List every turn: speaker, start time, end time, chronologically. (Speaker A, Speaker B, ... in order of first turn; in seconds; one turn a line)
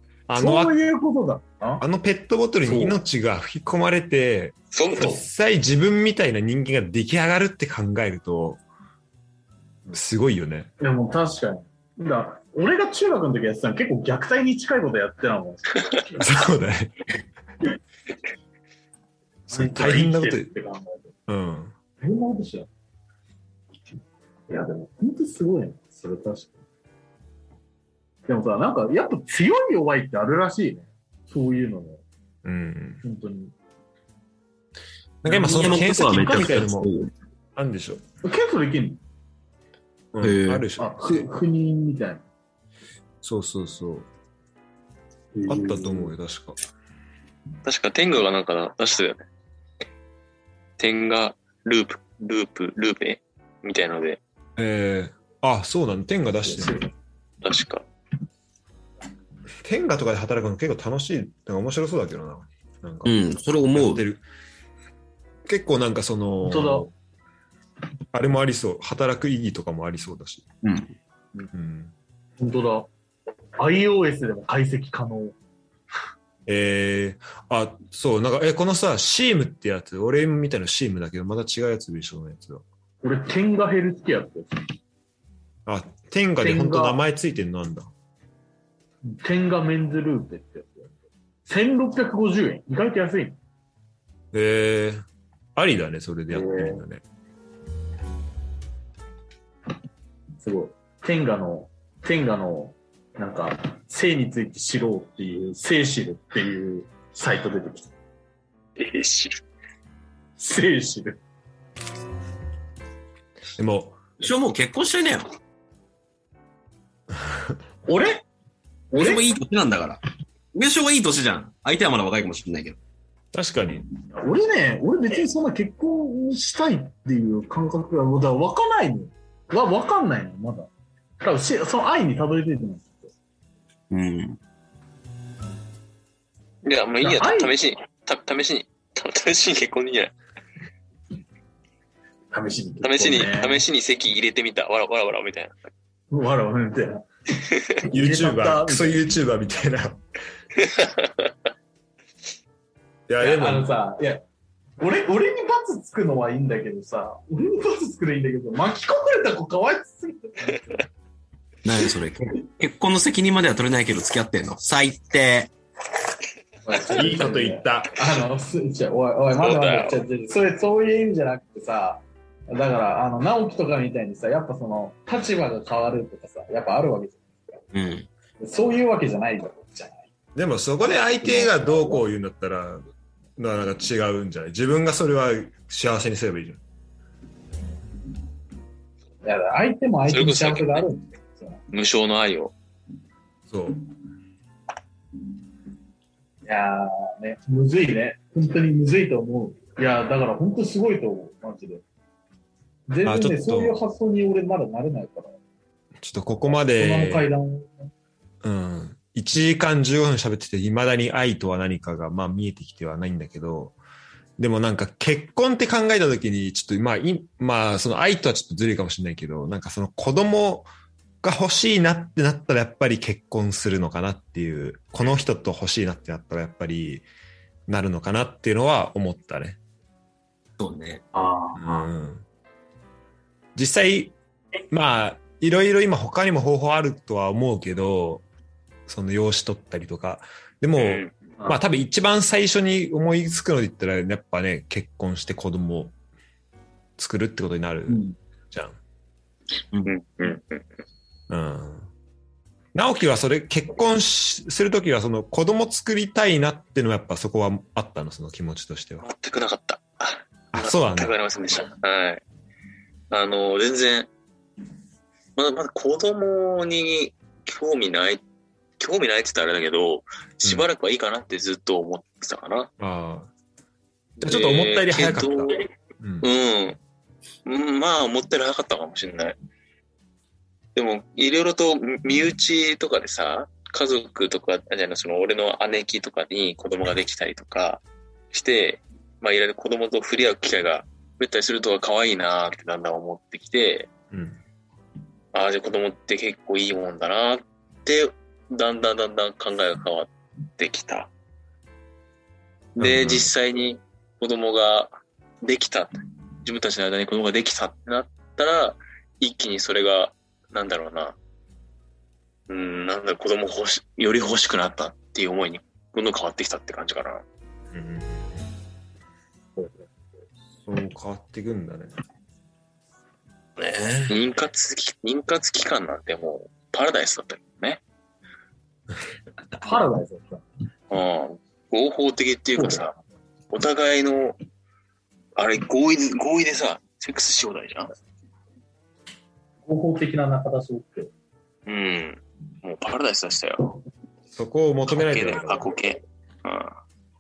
Speaker A: 0.3-0.8
Speaker B: 0.4-1.8
Speaker A: 1.8-8.6
Speaker B: 2.6-3.0
Speaker C: 4.7-5.2
Speaker A: 9.9-10.7
Speaker B: 10.8-16.2
Speaker A: 16.2-17.0
Speaker B: 19.5-21.1
Speaker A: 19.5-20.5
Speaker A: 21.3-21.8
Speaker B: 22.0-22.7
Speaker B: 24.5-26.6
Speaker B: 28.3-32.0
Speaker A: 32.5-33.0
Speaker B: 33.0-33.5
Speaker A: 35.2-36.9
Speaker B: 35.3-36.6
Speaker D: 35.4-37.1
Speaker A: 37.6-38.0
Speaker B: 38.2-39.0
Speaker A: 40.1-41.3
Speaker D: 40.2-40.6
Speaker B: 40.8-42.2
Speaker A: 43.2-44.1
Speaker B: 45.4-46.1
Speaker A: 45.5-46.6
Speaker C: 47.6-49.2
Speaker C: 50.8-54.2
Speaker A: 54.6-56.8
Speaker B: 56.5-56.9
Speaker C: 57.4-57.9
Speaker A: 59.6-63.1
Speaker D: 63.0-64.0
Speaker A: 63.7-64.2
Speaker A: 65.5-66.9
Speaker B: 66.4-66.9
Speaker A: 68.1-70.5
Speaker D: 70.6-70.9
Speaker A: 71.5-71.9
Speaker B: 72.4-72.9
Speaker B: 73.6-75.4
Speaker A: 76.5-82.7
Speaker B: 83.0-84.7
Speaker A: 85.7-87.9
Speaker B: 86.4-87.0
Speaker B: 89.0-90.9
Speaker B: 91.5-93.4
Speaker A: 94.3-97.0
Speaker B: 96.3-96.8
Speaker B: 100.4-107.9
Speaker C: 108.8-109.4
Speaker B: 110.4-111.2
Speaker A: 113.6-114.0
Speaker D: 114.2-115.3
Speaker B: 117.9-118.3
Speaker B: 118.9-119.2
Speaker D: 118.9-120.0
Speaker D: 120.5-122.8
Speaker A: 123.3-123.9
Speaker B: 124.1-130.7
Speaker B: 131.2-133.1
Speaker D: 133.9-134.4
Speaker C: 136.6-140.1
Speaker B: 137.0-137.5
Speaker B: 142.3-143.6
Speaker C: 142.8-145.6
Speaker B: 146.1-147.1
Speaker B: 147.8-149.1
Speaker A: 147.9-150.0
Speaker C: 150.6-151.1
Speaker A: 153.1-153.7
Speaker B: 153.2-154.2
Speaker B: 154.8-160.9
Speaker D: 161.7-165.5
Speaker B: 166.7-177.6
Speaker A: 166.9-168.0
Speaker C: 169.3-170.0
Speaker D: 177.7-178.1
Speaker B: 178.4-180.1
Speaker A: 180.3-182.8
Speaker B: 180.8-182.1
Speaker A: 183.4-186.6
Speaker B: 189.2-191.6
Speaker C: 190.1-190.8
Speaker C: 191.7-192.6
Speaker A: 193.5-193.8
Speaker B: 196.4-201.8
Speaker B: 202.9-205.4
Speaker A: 203.0-203.8
Speaker A: 206.0-207.3
Speaker B: 206.6-207.9
Speaker A: 208.4-213.8
Speaker A: 214.4-220.7
Speaker A: 221.2-227.1
Speaker A: 227.7-229.6
Speaker D: 230.6-231.0
Speaker B: 231.1-231.9
Speaker A: 231.6-232.3
Speaker A: 233.6-234.2
Speaker A: 234.7-238.2
Speaker A: 238.9-245.9
Speaker C: 240.8-241.2
Speaker A: 247.0-248.8
Speaker C: 249.9-250.8
Speaker A: 251.3-251.9
Speaker A: 252.7-259.1
Speaker C: 259.0-262.2
Speaker A: 260.5-261.1
Speaker C: 263.1-264.1
Speaker C: 265.4-268.2
Speaker C: 268.8-272.7
Speaker A: 272.8-273.3
Speaker C: 274.2-275.7
Speaker A: 274.2-276.3
Speaker C: 276.2-276.8
Speaker C: 277.4-279.4
Speaker C: 280.8-293.9
Speaker A: 294.1-294.4
Speaker C: 295.3-301.1
Speaker C: 302.8-311.2
Speaker A: 302.8-303.3
Speaker C: 312.5-317.2
Speaker A: 317.7-318.5
Speaker B: 319.6-319.9
Speaker A: 320.6-321.9
Speaker D: 323.6-324.2
Speaker C: 324.1-327.8
Speaker B: 329.6-330.4
Speaker C: 330.9-332.9
Speaker B: 332.6-333.0
Speaker C: 333.5-334.4
Speaker C: 335.4-337.9
Speaker B: 339.7-341.1
Speaker C: 341.7-343.8
Speaker A: 344.3-345.7
Speaker C: 344.9-346.8